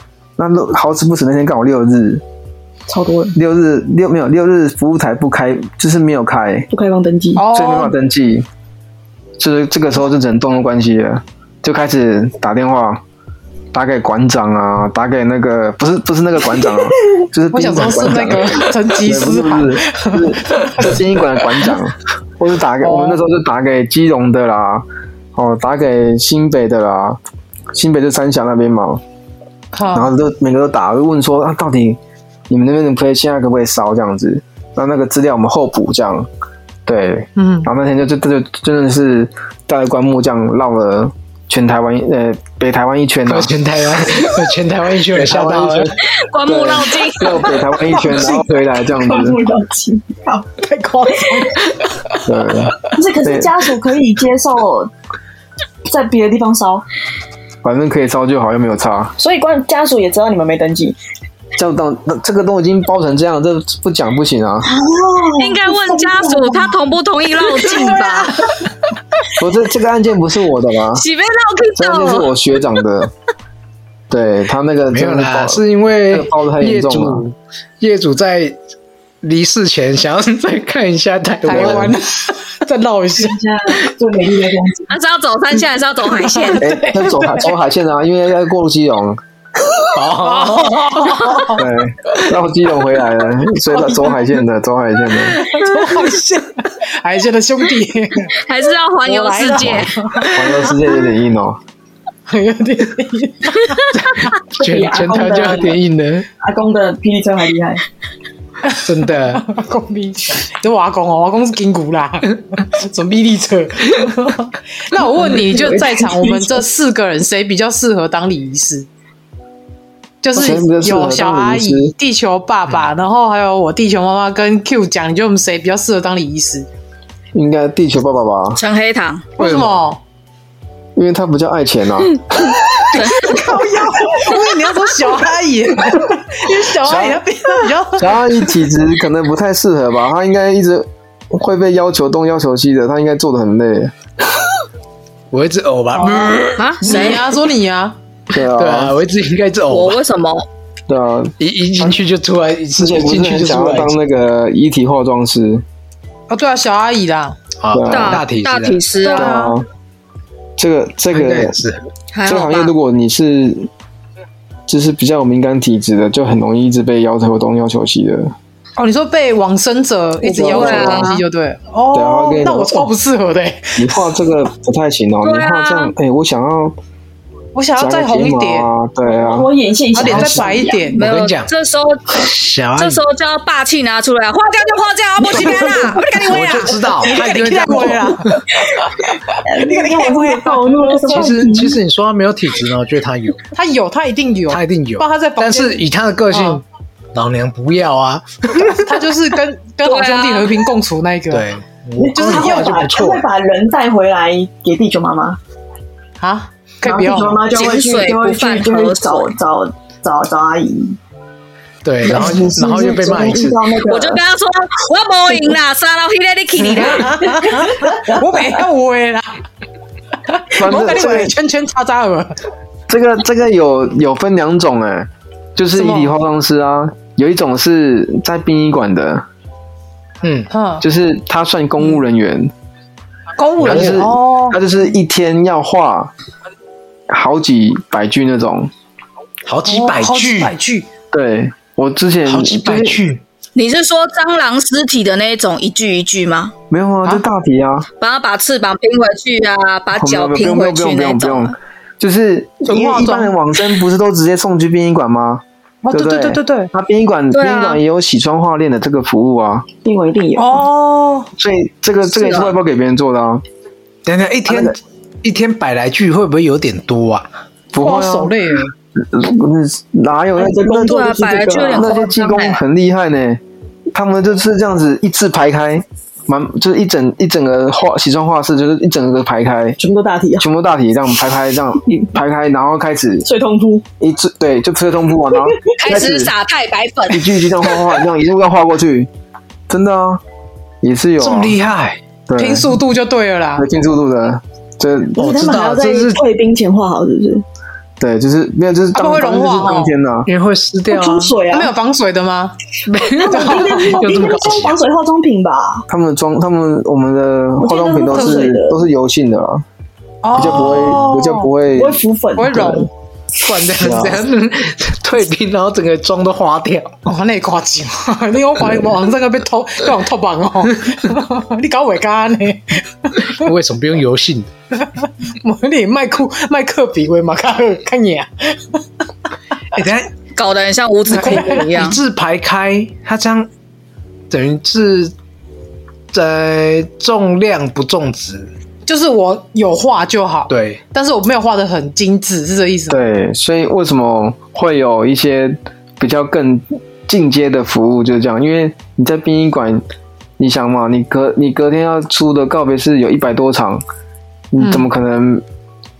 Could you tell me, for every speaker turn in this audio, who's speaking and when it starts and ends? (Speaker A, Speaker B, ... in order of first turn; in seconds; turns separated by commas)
Speaker A: 0.4-2.2, Speaker B: 2.9-3.4, Speaker A: 3.4-6.7, Speaker B: 6.7-7.4, Speaker C: 7.4-7.9, Speaker A: 7.5-8.5, Speaker A: 9.4-13.0, Speaker A: 13.7-27.2, Speaker C: 17.5-21.0, Speaker C: 22.8-23.2, Speaker A: 27.7-29.0, Speaker C: 29.7-30.1, Speaker A: 29.9-36.3, Speaker A: 36.9-44.4, Speaker C: 37.4-37.7, Speaker D: 43.3-46.0, Speaker A: 45.1-49.4, Speaker E: 46.2-47.5, Speaker B: 47.9-50.5, Speaker C: 50.6-52.2, Speaker A: 52.2-53.5, Speaker B: 53.0-54.9, Speaker B: 55.9-56.9, Speaker A: 57.6-59.1, Speaker B: 59.2-61.0, Speaker A: 61.6-64.7, Speaker B: 64.6-66.8, Speaker E: 65.4-68.5, Speaker A: 69.4-71.1, Speaker E: 70.9-72.3, Speaker A: 71.8-73.1, Speaker A: 74.1-77.2, Speaker D: 74.9-78.6, Speaker D: 79.2-82.0, Speaker A: 81.5-82.0, Speaker C: 81.5-83.4, Speaker B: 83.2-84.9, Speaker E: 84.9-86.7, Speaker C: 86.3-87.5, Speaker A: 86.6-89.2, Speaker D: 89.9-91.5, Speaker C: 90.1-91.7, Speaker A: 91.6-95.4, Speaker C: 93.7-94.2, Speaker C: 95.3-98.3, Speaker D: 95.3-96.2, Speaker E: 98.4-100.0, Speaker C: 99.0-100.8, Speaker A: 100.3-101.6, Speaker C: 102.3-104.3, Speaker D: 103.9-106.3, Speaker B: 104.6-105.8, Speaker B: 106.4-107.8, Speaker C: 108.7-118.9, Speaker D: 108.8-109.5, Speaker B: 115.2-116.6, Speaker C: 120.2-126.7, Speaker A: 120.3-121.9, Speaker A: 127.3-128.6, Speaker E: 128.6-129.3, Speaker C: 129.4-130.0, Speaker D: 129.4-129.7, Speaker A: 131.0-132.6, Speaker E: 132.9-133.5, Speaker C: 133.1-138.2, Speaker A: 138.0-143.9, Speaker D: 145.3-147.1, Speaker E: 146.6-147.3, Speaker C: 146.8-148.0, Speaker A: 148.3-149.0, Speaker D: 148.4-150.0, Speaker E: 149.7-150.5, Speaker A: 150.9-152.0, Speaker D: 151.4-153.9, Speaker A: 152.8-155.7, Speaker C: 156.3-157.4, Speaker D: 157.6-158.8, Speaker A: 157.7-158.3, Speaker E: 157.9-159.4, Speaker C: 159.0-159.6, Speaker A: 159.1-159.7, Speaker A: 160.6-161.6, Speaker D: 161.1-161.8, Speaker E: 162.1-162.7, Speaker A: 162.3-163.7, Speaker A: 164.7-168.3, Speaker C: 168.8-173.9, Speaker A: 170.2-171.1, Speaker E: 170.3-171.2, Speaker A: 171.9-172.9, Speaker A: 173.8-176.8, Speaker E: 175.2-175.9, Speaker C: 177.6-178.7, Speaker A: 177.8-179.5, Speaker B: 179.1-180.9, Speaker C: 179.9-181.0, Speaker D: 180.0-180.4, Speaker E: 181.0-186.9, Speaker D: 181.0-181.5, Speaker D: 182.1-183.0, Speaker C: 185.3-186.3, Speaker D: 186.0-188.4, Speaker C: 187.0-188.4, Speaker B: 187.7-191.8, Speaker C: 189.6-191.4, Speaker D: 191.1-193.4, Speaker C: 193.5-196.6, Speaker D: 194.5-196.6, Speaker D: 197.1-198.9, Speaker C: 198.6-201.5, Speaker E: 199.8-200.7, Speaker D: 201.3-203.2, Speaker B: 202.0-205.4, Speaker C: 202.1-202.7, Speaker C: 206.2-207.4, Speaker B: 206.8-211.0, Speaker E: 207.5-209.3, Speaker D: 211.8-213.7, Speaker B: 212.0-214.2, Speaker E: 213.9-217.3, Speaker C: 216.7-219.4, Speaker B: 217.5-218.6, Speaker C: 220.3-222.4, Speaker A: 220.5-221.3, Speaker A: 222.9-229.3, Speaker C: 225.7-226.2, Speaker D: 230.2-230.5, Speaker C: 230.5-230.8, Speaker A: 230.8-232.5, Speaker C: 233.4-234.6, Speaker A: 233.6-236.1, Speaker D: 233.7-233.9, Speaker A: 237.1-238.7, Speaker D: 239.5-240.5, Speaker C: 239.7-240.9, Speaker A: 241.1-243.0, Speaker D: 242.3-243.2, Speaker E: 243.6-246.6, Speaker A: 246.7-247.9, Speaker E: 248.0-251.6, Speaker A: 249.9-259.7, Speaker C: 252.7-253.3, Speaker C: 255.8-256.7, Speaker E: 257.3-257.8, Speaker B: 259.9-260.7, Speaker C: 260.4-261.3, Speaker A: 261.4-263.4, Speaker E: 262.1-262.5, Speaker D: 264.1-267.3, Speaker A: 264.5-264.8, Speaker A: 267.7-268.4, Speaker C: 267.8-268.7, Speaker A: 269.0-273.4, Speaker B: 270.4-272.0, Speaker E: 270.8-272.6, Speaker A: 273.9-279.8, Speaker B: 279.8-280.5, Speaker A: 280.4-283.3, Speaker B: 283.2-283.9, Speaker A: 284.0-286.3, Speaker B: 285.5-285.7, Speaker E: 285.8-287.7, Speaker A: 287.1-289.1, Speaker A: 289.7-290.2, Speaker A: 290.8-291.6, Speaker D: 291.2-292.0, Speaker A: 292.3-292.7, Speaker C: 292.4-293.7, Speaker A: 293.6-295.2, Speaker D: 295.2-296.2, Speaker B: 295.2-297.4, Speaker A: 298.0-300.3, Speaker C: 298.9-299.9, Speaker D: 300.3-301.4, Speaker B: 300.9-301.7, Speaker C: 301.5-302.6, Speaker D: 302.9-304.8, Speaker B: 303.1-305.9, Speaker C: 303.3-303.9, Speaker A: 305.9-309.6, Speaker B: 307.6-308.8, Speaker C: 308.1-308.4, Speaker C: 310.2-311.5, Speaker A: 310.3-312.9, Speaker B: 311.7-312.8, Speaker C: 312.4-312.9, Speaker D: 313.4-317.0, Speaker A: 313.7-314.2, Speaker C: 317.1-323.5, Speaker D: 323.3-324.5, Speaker C: 324.8-328.8, Speaker D: 329.7-330.1, Speaker E: 330.4-332.0, Speaker C: 331.1-331.7, Speaker D: 331.1-333.5, Speaker D: 334.3-335.1, Speaker D: 336.1-338.5, Speaker C: 338.9-343.1, Speaker D: 340.5-340.8, Speaker A: 342.9-349.8, Speaker A: 350.4-353.8, Speaker A: 354.5-355.4, Speaker C: 354.6-354.9